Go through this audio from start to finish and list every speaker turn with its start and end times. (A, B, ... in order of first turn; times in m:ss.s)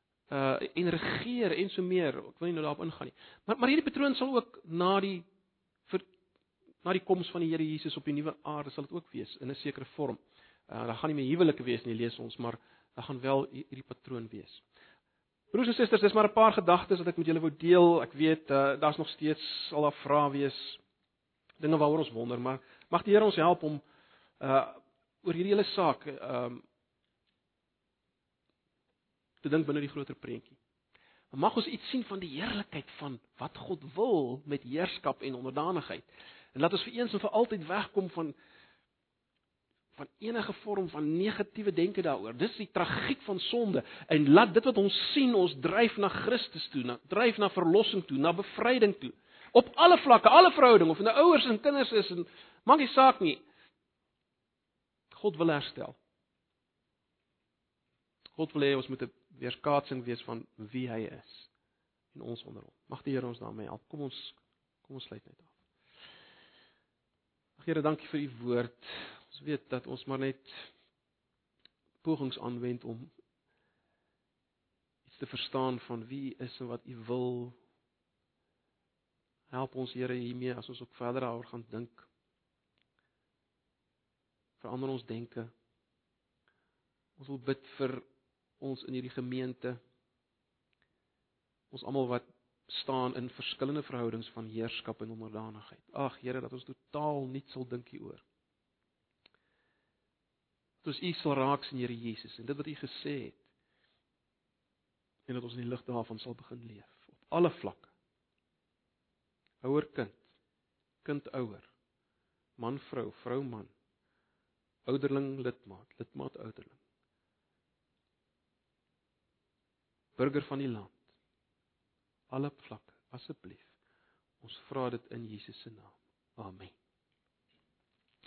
0:00.3-0:05.2 A
0:06.8-0:14.6 A
0:15.5-0:20.8 A
0:21.6-0:23.8 A
0:24.4-0:26.6 A
0:29.4-0:30.6 A
0:31.3-0:38.4 A
0:40.0-0:53.4 A
0:55.1-0:56.0 A
0:58.4-1:01.5 A
1:02.1-1:05.5 A
1:07.6-1:10.7 A
1:12.0-1:13.1 A
1:15.0-1:17.6 A
1:19.5-1:22.1 A
1:24.6-1:25.5 A
1:27.2-1:28.0 A
1:28.6-1:29.8 A
1:31.7-1:38.2 A
1:40.8-1:43.4 A
1:45.3-1:47.9 A
1:49.6-1:50.2 A
1:51.0-1:51.7 A
1:52.6-1:53.7 A
1:54.9-1:56.7 A
2:00.2-2:01.0 A
2:02.3-2:03.7 A
2:04.4-2:06.8 A